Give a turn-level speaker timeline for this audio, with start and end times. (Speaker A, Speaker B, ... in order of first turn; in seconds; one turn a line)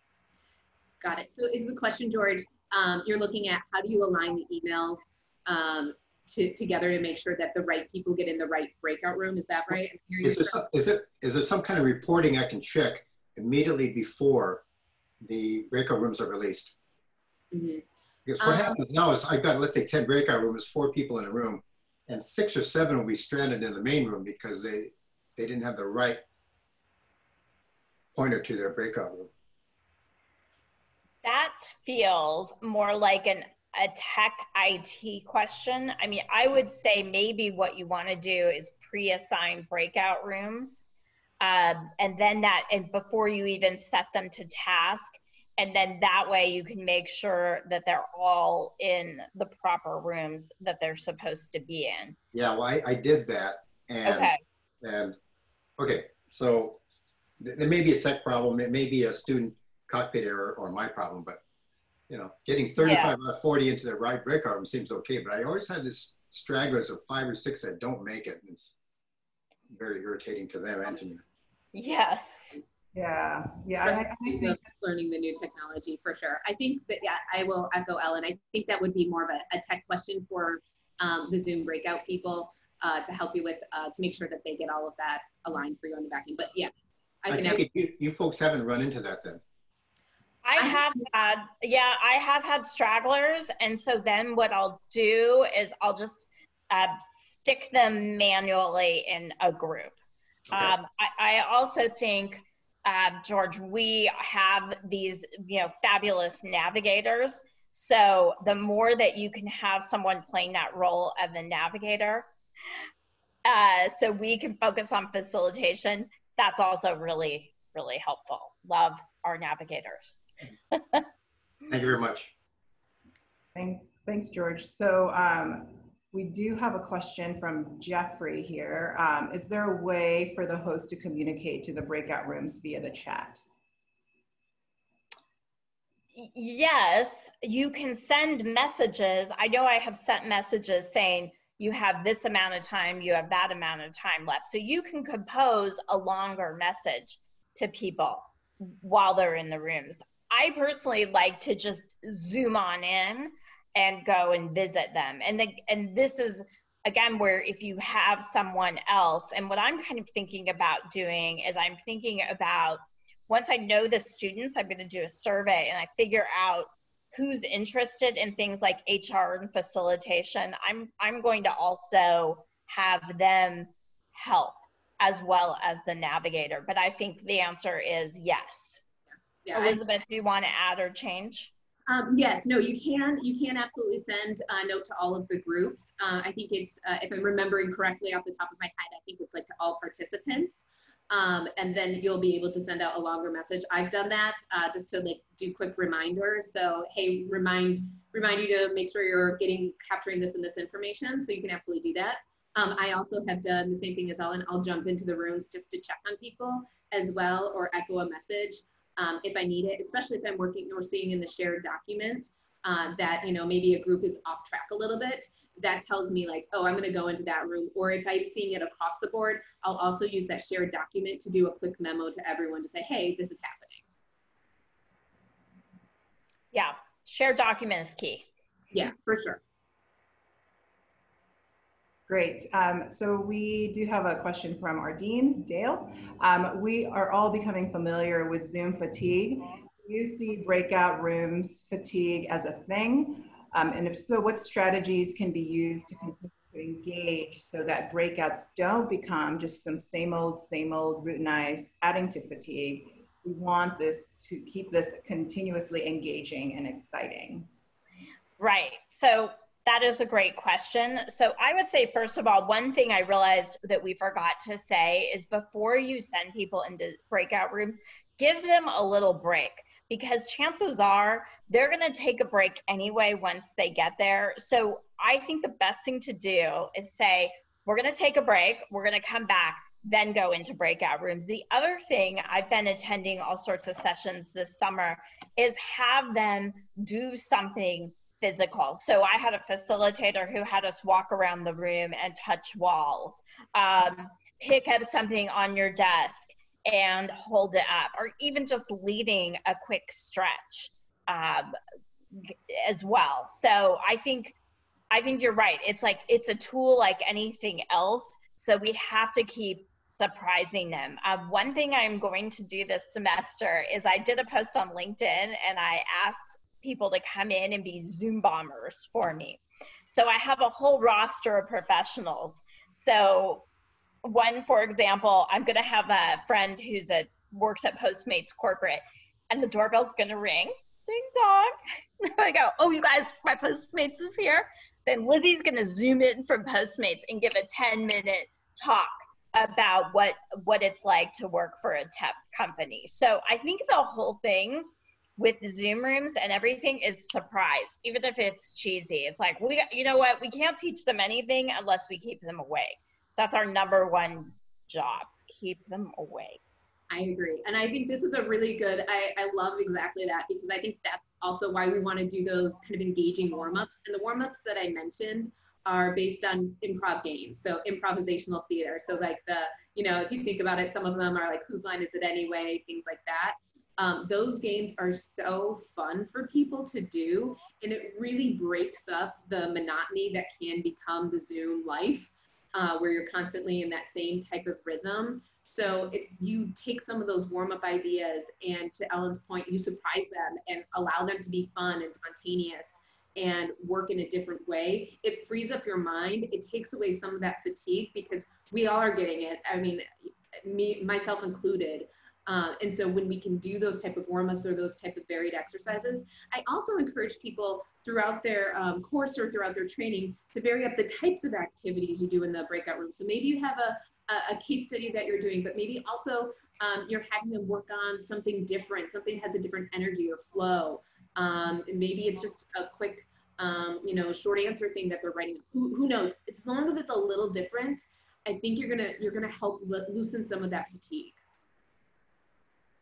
Speaker A: 1.0-10.6
Speaker B: 10.2-14.6
Speaker B: 15.2-16.8
Speaker A: 17.5-17.8
Speaker B: 18.3-26.2
Speaker A: 18.4-18.8
Speaker B: 28.1-29.3
Speaker C: 31.2-40.9
Speaker C: 41.4-52.2
Speaker B: 52.3-55.2
Speaker C: 54.1-54.4
Speaker B: 55.8-56.8
Speaker B: 57.4-61.4
Speaker B: 62.1-68.8
Speaker C: 62.8-63.1
Speaker B: 69.7-71.2
Speaker C: 71.7-72.6
Speaker D: 72.9-74.6
Speaker A: 73.8-87.6
Speaker B: 87.3-89.4
Speaker C: 90.4-100.0
Speaker A: 90.6-90.8
Speaker B: 100.5-100.8
Speaker C: 100.5-112.3
Speaker C: 113.5-121.0
Speaker B: 121.7-122.3
Speaker D: 123.5-133.4
Speaker C: 136.1-178.8
Speaker A: 179.4-179.8
Speaker C: 179.5-181.5
Speaker A: 181.9-223.8
Speaker C: 226.5-228.3
Speaker A: 228.7-229.4
Speaker D: 232.1-257.5
Speaker C: 258.4-301.6
Speaker C: 302.1-304.4
Speaker C: 304.9-323.5
Speaker C: 324.0-356.4
Speaker A: 356.9-431.2